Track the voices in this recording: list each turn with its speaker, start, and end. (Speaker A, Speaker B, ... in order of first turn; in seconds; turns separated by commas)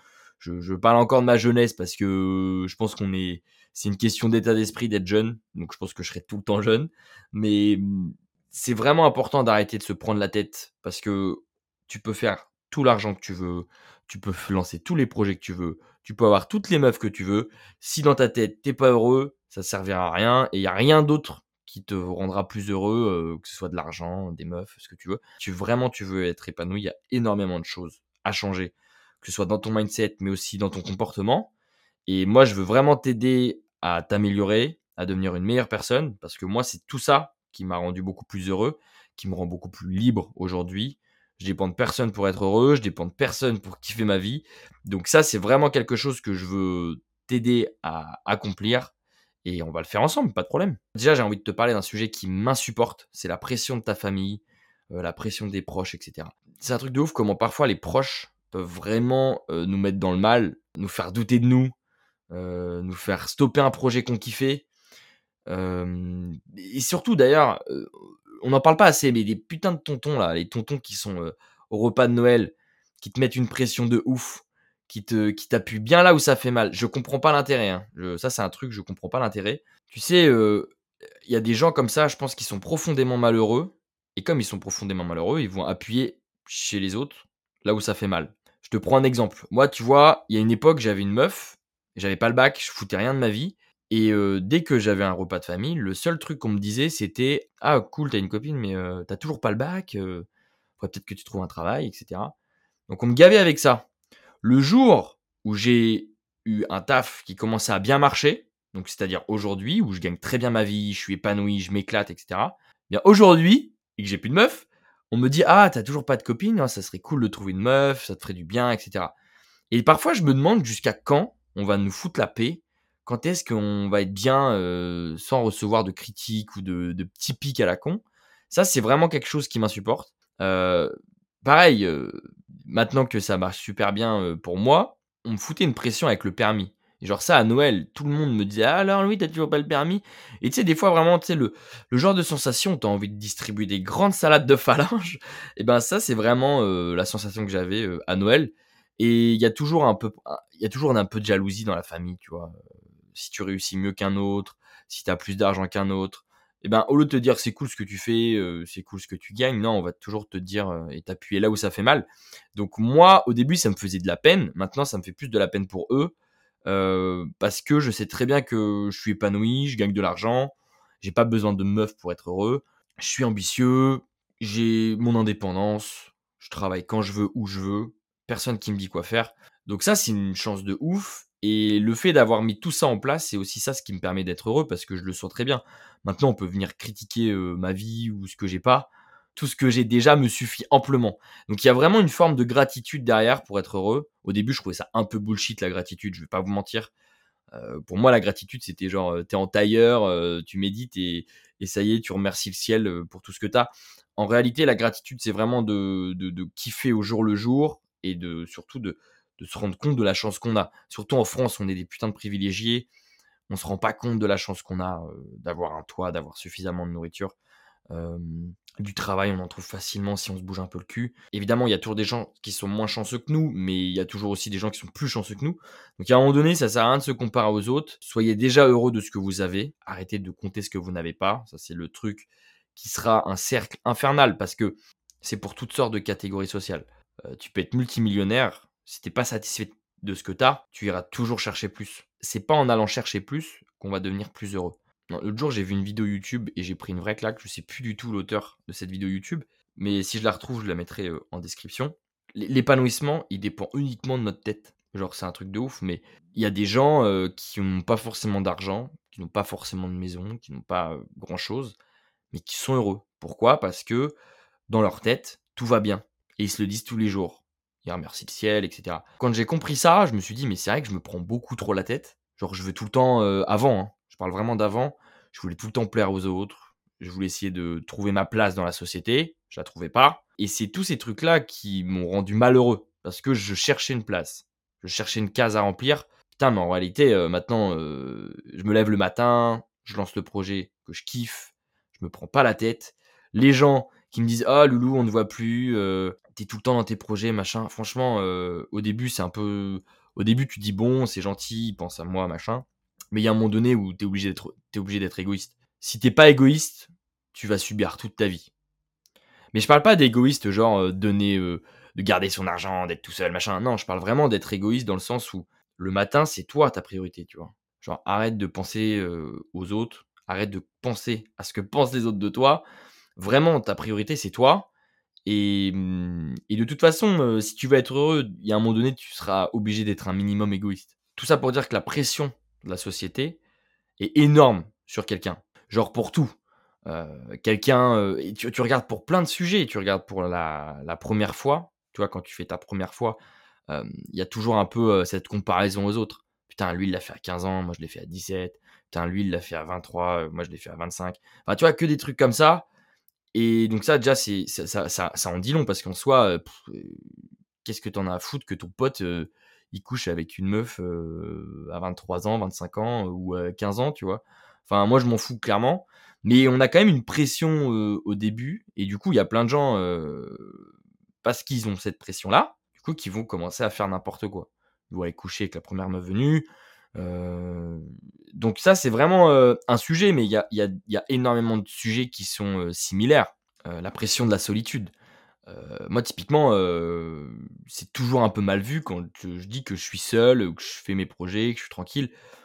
Speaker A: 0.4-31.5, Speaker A: 32.0-48.9, Speaker A: 49.4-61.7, Speaker A: 62.3-64.7, Speaker A: 65.5-67.9, Speaker A: 68.4-80.7, Speaker A: 81.2-100.2, Speaker A: 100.8-102.3, Speaker A: 102.9-103.8, Speaker A: 104.4-119.1, Speaker A: 119.7-152.5, Speaker A: 153.1-166.1, Speaker A: 166.7-196.9, Speaker A: 197.5-212.9, Speaker A: 213.5-217.3, Speaker A: 217.9-261.8, Speaker A: 262.3-264.1, Speaker A: 264.7-308.5, Speaker A: 309.5-322.6, Speaker A: 323.2-324.7, Speaker A: 325.2-333.4, Speaker A: 334.0-336.3, Speaker A: 336.9-352.6, Speaker A: 353.3-357.0, Speaker A: 357.6-370.6, Speaker A: 371.2-384.9, Speaker A: 385.5-392.1